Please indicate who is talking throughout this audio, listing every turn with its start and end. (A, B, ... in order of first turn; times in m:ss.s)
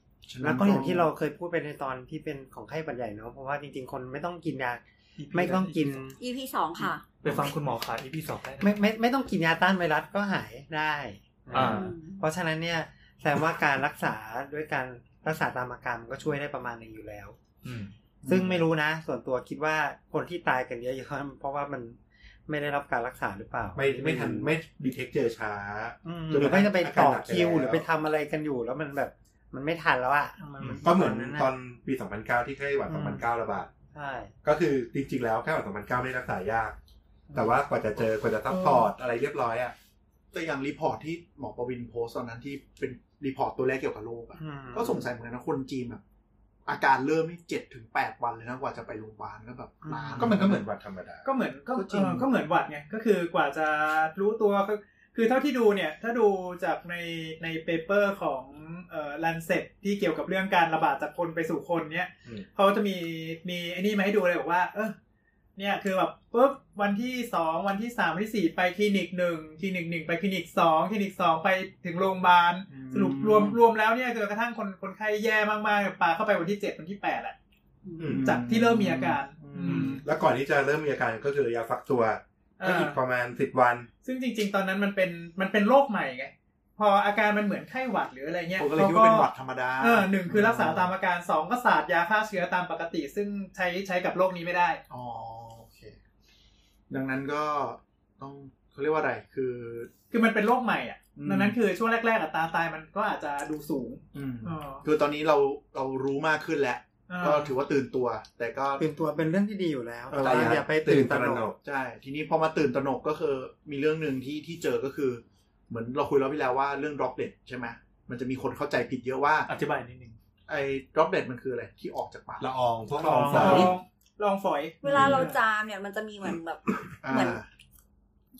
0:00.3-0:01.1 A
0:00.4-0:06.2 B
0:05.2-0:06.0 C
0:06.2-0:07.1 D
0:07.2-0:08.8 E
0:08.6-0:17.4 B
0:11.5-0:11.9 E
0:11.6-0:12.2 D
0:17.6-0:17.9 E
0:18.2-0:18.6 A
0:18.3-0:24.6 B
0:23.8-0:27.9 F
0:26.0-0:31.5 B
0:30.8-0:33.7 F
0:32.9-0:33.2 B
0:33.9-0:34.3 B
0:34.4-0:36.8 F
0:37.3-0:38.0 A
0:37.4-0:39.8 F
0:40.3-0:46.0 A
0:44.4-0:45.1 B
0:46.7-0:50.6 A
0:49.8-0:50.4 B
0:50.2-0:51.2 F
0:51.2-1:05.0 C
0:51.7-0:52.3 A
1:05.6-1:17.4 C
1:12.7-1:13.6 A
1:17.8-1:18.2 D
1:18.0-1:18.4 F
1:18.1-1:20.0 A
1:18.2-1:20.0 C
1:19.6-1:20.0 E
1:20.0-1:23.9 F
1:22.6-1:23.0 C
1:24.0-1:34.8 C
1:28.6-1:30.9 A
1:34.9-1:36.0 A
1:36.9-1:39.9 A
1:40.1-1:44.8 C
1:41.2-1:41.6 A
1:44.1-1:48.8 A
1:47.1-1:47.5 C
1:48.8-1:51.5 B
1:50.1-1:50.6 A
1:50.1-1:51.6 F
1:51.6-1:59.5 A
1:59.5-2:00.2 E
2:00.5-2:02.5 A
2:02.4-2:03.8 F
2:03.0-2:03.7 B
2:03.2-2:03.7 A
2:03.3-2:05.4 C
2:04.8-2:07.4 D
2:04.9-2:05.2 A
2:07.0-2:07.5 A